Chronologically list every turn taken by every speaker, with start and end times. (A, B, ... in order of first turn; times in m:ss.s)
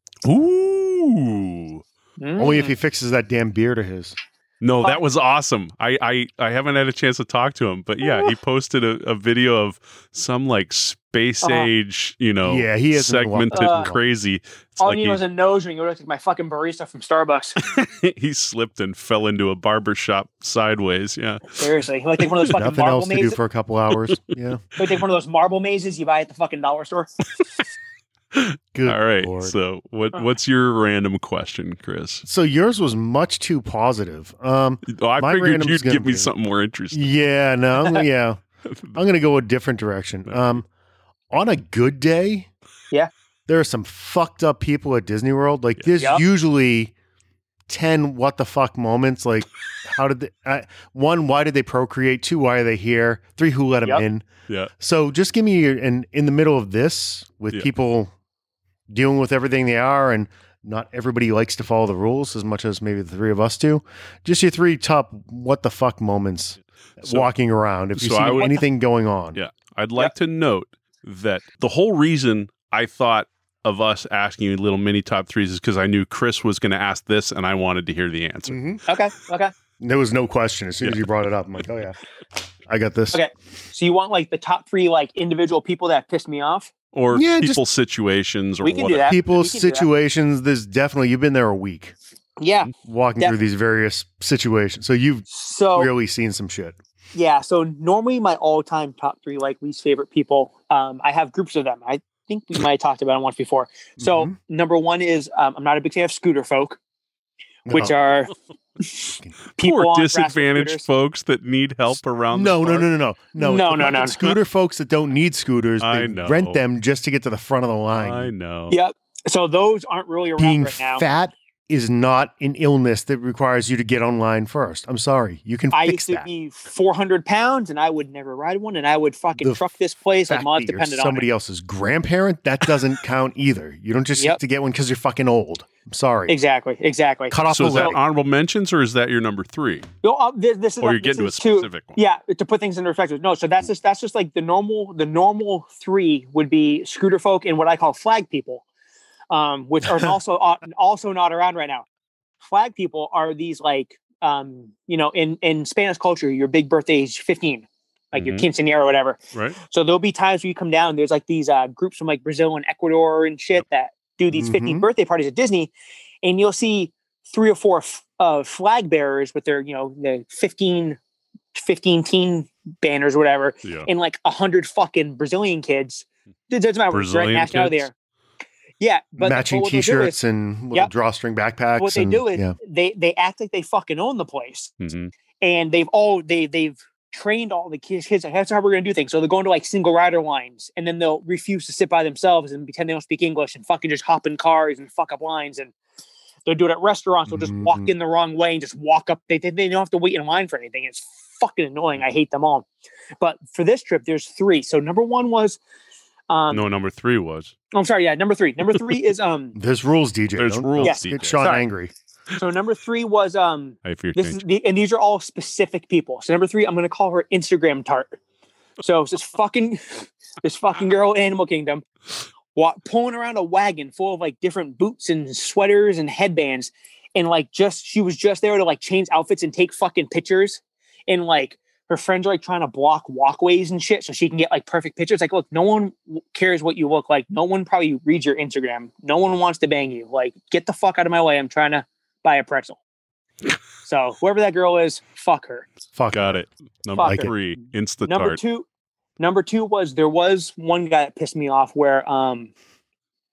0:00.2-0:01.8 A
0:02.2-0:02.7 B
0:02.4-0:04.1 C
0:04.6-0:15.2 A
0:08.0-0:08.3 B
0:11.4-0:11.7 B
0:12.4-0:14.0 C
0:13.5-0:13.9 B
0:14.8-0:17.6 B
0:17.6-0:21.6 A
0:21.5-0:23.4 B
0:22.5-0:24.6 C
0:24.8-0:27.1 B
0:28.3-0:32.2 A
0:28.7-0:29.6 C
0:32.2-0:36.3 C
0:34.9-0:37.1 A
0:36.9-0:38.4 C
0:38.9-0:40.6 C
0:40.3-0:40.6 A
0:41.3-0:42.5 C
0:43.5-0:46.9 C
0:47.7-0:54.3 C
0:54.8-0:58.1 C
0:58.9-1:09.4 C
1:07.0-1:07.3 A
1:08.0-1:08.6 A
1:09.3-1:18.6 A
1:18.5-1:18.8 C
1:18.8-1:19.5 B
1:19.8-1:22.0 C
1:22.7-1:23.2 C
1:23.1-1:26.7 B
1:26.9-1:29.1 A
1:27.1-1:27.6 C
1:28.6-1:29.9 B
1:29.0-1:31.9 C
1:32.4-1:33.4 B
1:32.8-1:36.8 C
1:35.3-1:35.9 B
1:37.1-1:46.8 B
1:44.0-1:44.3 C
1:47.6-1:47.9 C
1:47.7-1:50.8 B
1:49.6-1:52.8 A
1:52.3-1:58.3 C
1:53.4-1:54.3 B
1:55.8-1:56.6 A
1:57.9-1:58.8 A
1:58.7-2:01.0 B
2:00.4-2:06.3 C
2:05.7-2:11.2 B
2:09.4-2:09.7 C
2:10.3-2:16.3 C
2:16.3-2:18.0 B
2:17.3-2:18.0 C
2:17.5-2:19.9 A
2:20.0-2:28.6 B
2:20.8-2:22.0 A
2:29.3-2:31.8 B
2:32.4-2:45.7 B
2:38.1-2:38.4 A
2:39.3-2:39.6 A
2:44.3-2:44.8 C
2:46.2-2:51.0 B
2:51.5-2:57.9 B
2:56.9-2:57.8 A
2:58.8-3:00.2 B
2:59.2-3:02.5 C
3:01.8-3:04.8 B
3:04.8-3:05.1 A
3:05.4-3:15.7 B
3:16.4-3:22.6 B
3:17.3-3:17.9 C
3:23.2-3:25.6 B
3:26.3-3:26.6 B
3:26.5-3:27.5 A
3:27.7-3:29.6 B
3:29.5-3:31.9 C
3:30.4-3:31.4 A
3:30.8-3:31.6 B
3:32.3-3:38.2 B
3:33.8-3:34.4 A
3:38.8-3:41.8 B
3:42.5-4:02.8 B
4:03.8-4:05.6 B
4:06.0-4:06.4 C
4:06.1-4:08.4 A
4:06.9-4:07.3 B
4:07.0-4:07.3 C
4:08.0-4:08.6 B
4:09.2-4:12.5 B